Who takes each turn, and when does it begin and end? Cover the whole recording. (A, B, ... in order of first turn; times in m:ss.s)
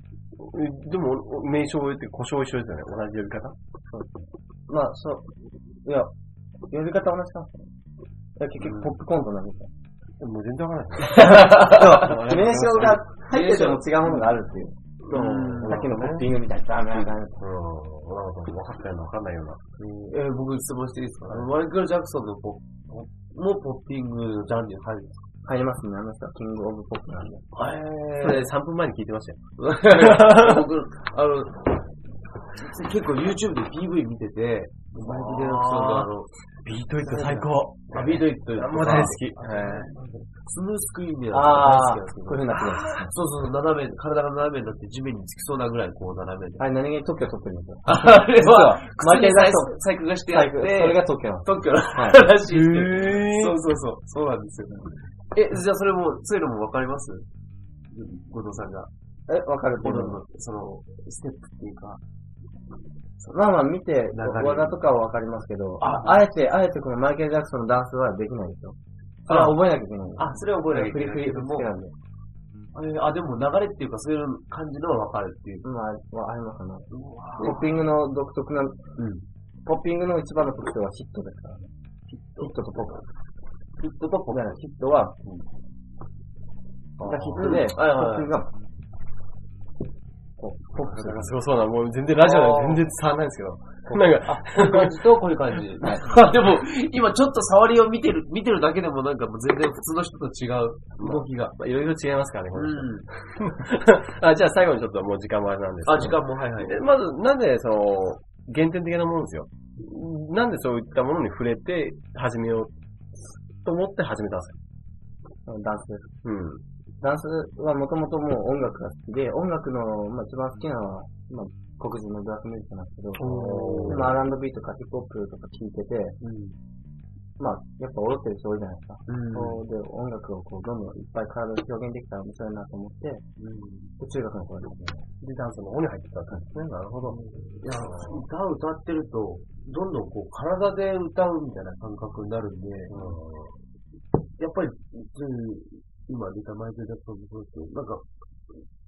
0:00.4-0:03.6 A
0:04.7-0:06.1 B
0:06.7-0:07.7 B
0:08.4-0:09.7 B
0:08.6-0:09.0 C
0:10.2-0:13.0 A
0:11.1-0:17.4 B
0:11.2-0:11.8 C
0:13.3-0:14.4 C
0:15.0-0:16.3 A
0:15.1-0:15.8 C
0:16.9-0:19.6 A
0:19.8-0:25.2 C
0:25.4-0:27.4 B
0:27.5-0:28.5 C
0:28.1-0:30.7 A
0:29.6-0:31.8 C
0:32.5-0:36.3 C
0:35.0-0:36.1 A
0:36.6-0:39.9 A
0:37.0-0:46.7 C
0:41.3-0:43.1 B
0:46.6-0:52.2 B
0:47.8-0:57.2 C
0:52.4-0:53.6 A
0:57.9-0:58.9 C
0:59.3-1:00.2 B
0:59.8-1:02.0 C
1:03.3-1:08.8 B
1:04.1-1:04.8 C
1:05.8-1:06.2 C
1:09.3-1:09.6 C
1:09.3-1:11.9 B
1:10.2-1:11.8 C
1:12.7-1:15.7 C
1:15.6-1:18.8 B
1:16.9-1:17.7 C
1:19.0-1:19.2 C
1:19.6-1:21.7 B
1:22.1-1:23.0 C
1:22.3-1:23.0 B
1:23.8-1:24.6 C
1:24.3-1:25.1 B
1:27.0-1:28.3 C
1:27.0-1:28.5 B
1:30.4-1:31.3 B
1:30.9-1:35.0 A
1:32.2-1:32.9 C
1:34.2-1:41.5 C
1:41.0-1:52.7 A
1:42.5-1:43.1 C
1:45.8-1:46.8 C
1:53.6-1:54.6 A
1:55.4-1:56.2 B
1:56.2-1:56.6 A
1:57.0-2:06.2 B
2:03.2-2:04.2 A
2:03.2-2:04.2 C
2:06.2-2:06.6 C
2:07.4-2:13.2 B
2:09.1-2:09.6 C
2:13.4-2:13.9 C
2:14.0-2:15.0 B
2:15.1-2:17.2 A
2:17.1-2:23.2 C
2:17.7-2:18.2 A
2:22.9-2:23.6 A
2:24.4-2:28.6 C